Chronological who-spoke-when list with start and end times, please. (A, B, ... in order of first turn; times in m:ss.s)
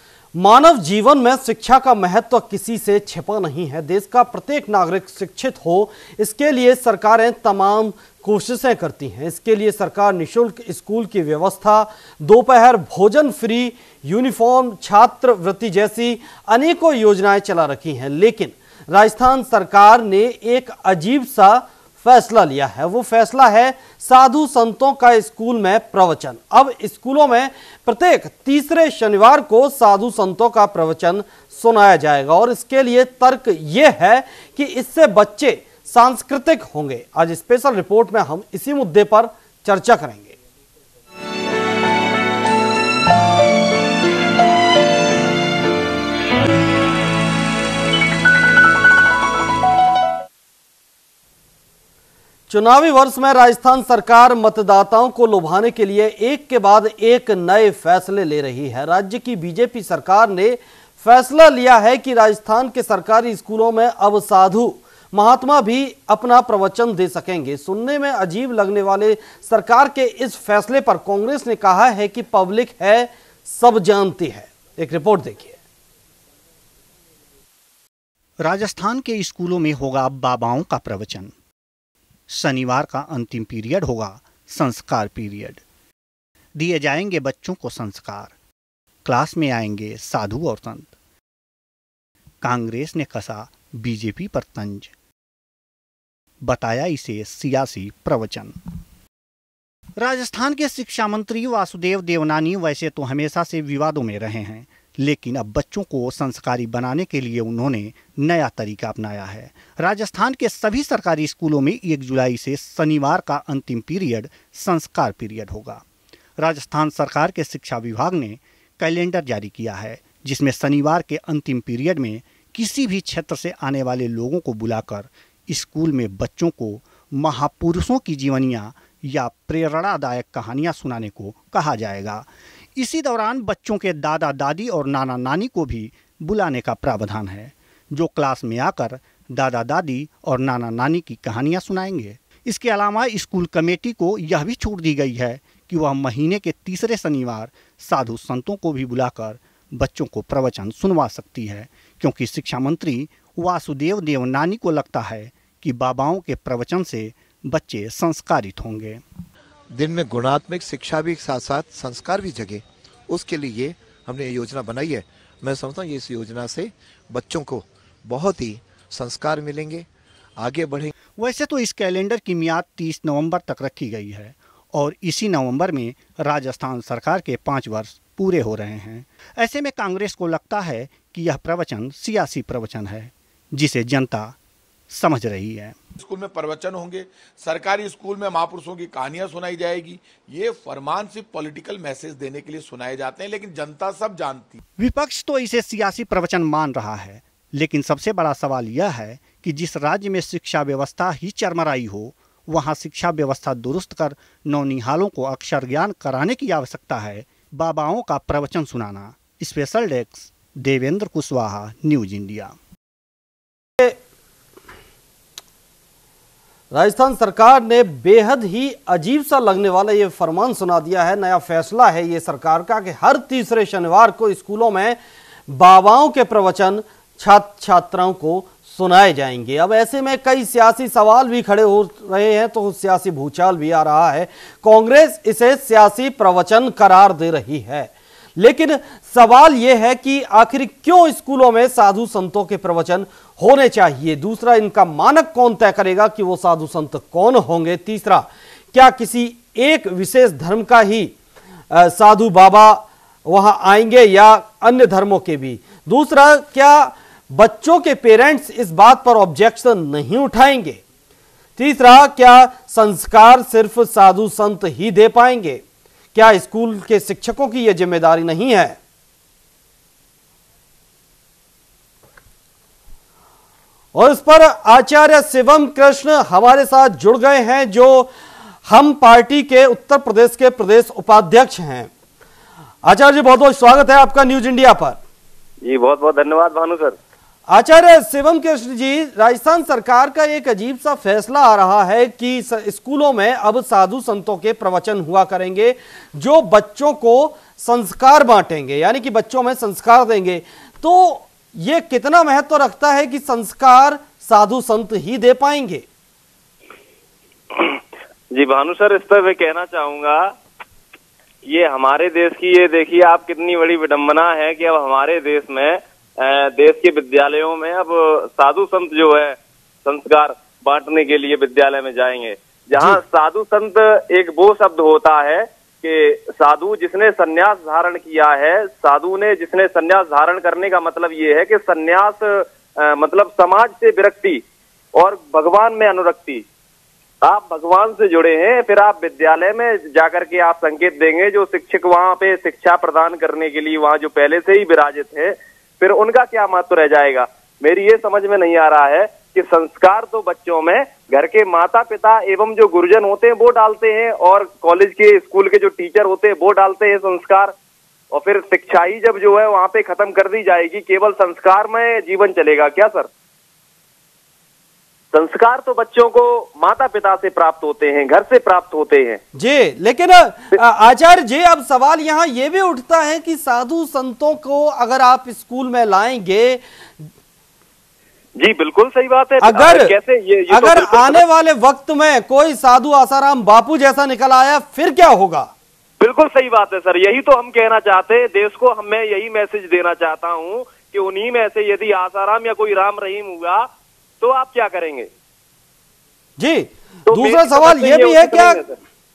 0:00.4-0:40.3 A
0:52.5-1:15.6 A
1:18.4-1:21.3 B
1:22.3-1:25.6 B
1:26.6-1:28.3 B
1:29.0-1:30.9 B
1:32.4-1:34.9 B
1:36.4-1:38.6 B
1:40.0-1:55.8 B
1:56.4-2:39.0 B
2:39.7-2:50.9 C
2:51.2-3:04.4 B
3:04.9-3:05.8 B
3:06.0-3:14.6 D
3:14.8-3:32.6 B
3:36.7-3:45.0 A
3:45.5-4:11.1 A
4:11.7-4:20.8 A
4:21.6-4:25.6 A
4:26.1-4:28.8 A
4:33.9-4:38.1 A
4:38.7-4:41.9 A
4:42.8-4:45.0 A
4:45.6-4:47.0 E
4:47.5-5:05.8 A
5:07.5-5:07.8 E
5:08.3-5:10.3 E
5:11.4-5:34.4 E
5:35.0-5:36.4 E
5:37.2-5:57.5 E
5:58.1-6:03.1 E
6:05.1-6:09.2 E
6:09.3-6:17.1 A
6:18.4-6:21.2 E
6:19.4-6:20.0 A
6:20.5-6:25.5 A
6:26.0-6:33.7 E
6:34.2-6:35.1 E
6:36.4-6:38.6 A
6:37.1-6:38.8 E